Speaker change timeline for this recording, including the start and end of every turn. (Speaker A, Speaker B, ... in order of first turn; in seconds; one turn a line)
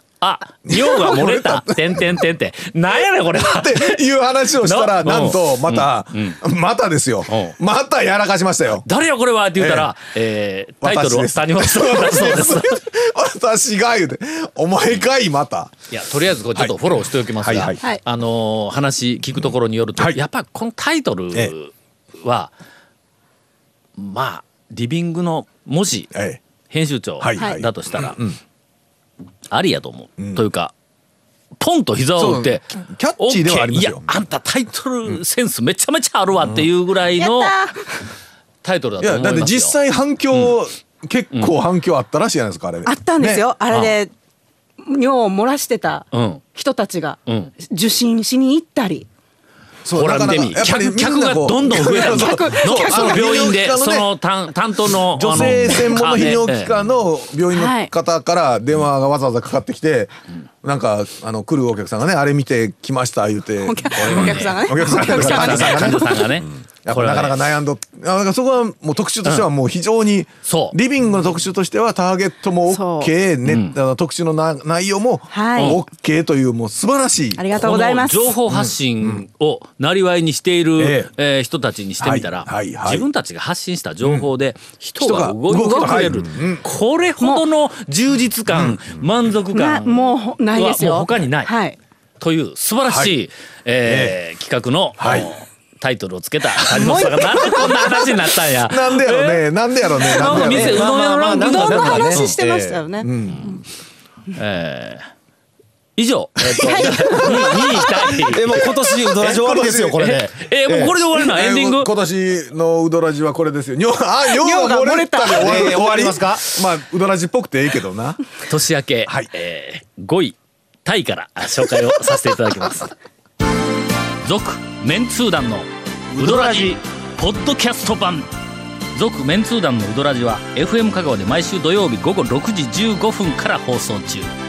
Speaker A: 0.2-4.0
Speaker B: 0.7-2.1
Speaker B: 2.9-8.8
Speaker A: 4.6-6.4
Speaker A: 7.3-7.5
Speaker A: 8.7-12.8
Speaker B: 9.6-9.9
Speaker B: 10.8-15.7
Speaker A: 15.9-22.5
Speaker B: 16.5-17.9
Speaker B: 19.4-20.2
Speaker A: 24.0-26.1
Speaker B: 26.1-26.4
Speaker A: 26.7-28.2
Speaker B: 27.2-28.4
Speaker C: 27.4-27.6
Speaker A: 29.5-30.7
Speaker B: 30.2-30.4
Speaker A: 31.6-37.6
Speaker B: 32.2-34.0
Speaker C: 37.2-38.0
Speaker A: 38.6-39.8
Speaker B: 39.0-43.5
Speaker C: 42.8-44.1
Speaker A: 43.7-44.0
Speaker C: 44.8-49.1
Speaker A: 46.1-46.4
Speaker A: 47.2-47.5
Speaker B: 49.8-54.1
Speaker A: 49.9-56.7
Speaker C: 51.7-53.3
Speaker B: 54.8-60.1
Speaker C: 55.7-56.1
Speaker C: 57.5-57.9
Speaker B: 60.6-77.7
Speaker C: 63.6-66.3
Speaker A: 64.0-67.4
Speaker A: 69.2-69.5
Speaker A: 70.4-70.8
Speaker C: 72.7-73.1
Speaker A: 73.4-73.8
Speaker C: 75.3-75.8
Speaker A: 75.5-75.8
Speaker C: 77.3-78.3
Speaker A: 77.5-91.5
Speaker B: 78.5-79.2
Speaker B: 80.8-81.1
Speaker B: 82.0-83.1
Speaker B: 84.0-84.3
Speaker B: 85.0-86.7
Speaker C: 85.5-86.0
Speaker C: 87.2-87.4
Speaker B: 88.5-88.8
Speaker C: 89.5-91.8
Speaker A: 92.2-99.5
Speaker B: 92.9-93.1
Speaker B: 93.8-94.2
Speaker B: 95.0-95.3
Speaker C: 96.7-98.0
Speaker B: 98.5-101.5
Speaker A: 100.0-102.4
Speaker D: 100.2-102.8
Speaker C: 101.3-103.6
Speaker B: 103.0-103.6
Speaker A: 104.3-105.0
Speaker A: 106.0-108.7
Speaker B: 106.4-107.6
Speaker C: 106.6-108.0
Speaker D: 107.8-111.0
Speaker B: 109.2-110.1
Speaker A: 110.0-111.9
Speaker B: 111.1-118.2
Speaker C: 114.3-115.7
Speaker D: 115.3-116.5
Speaker A: 118.5-122.9
Speaker A: 124.2-128.3
Speaker D: 126.1-126.8
Speaker A: 128.9-134.3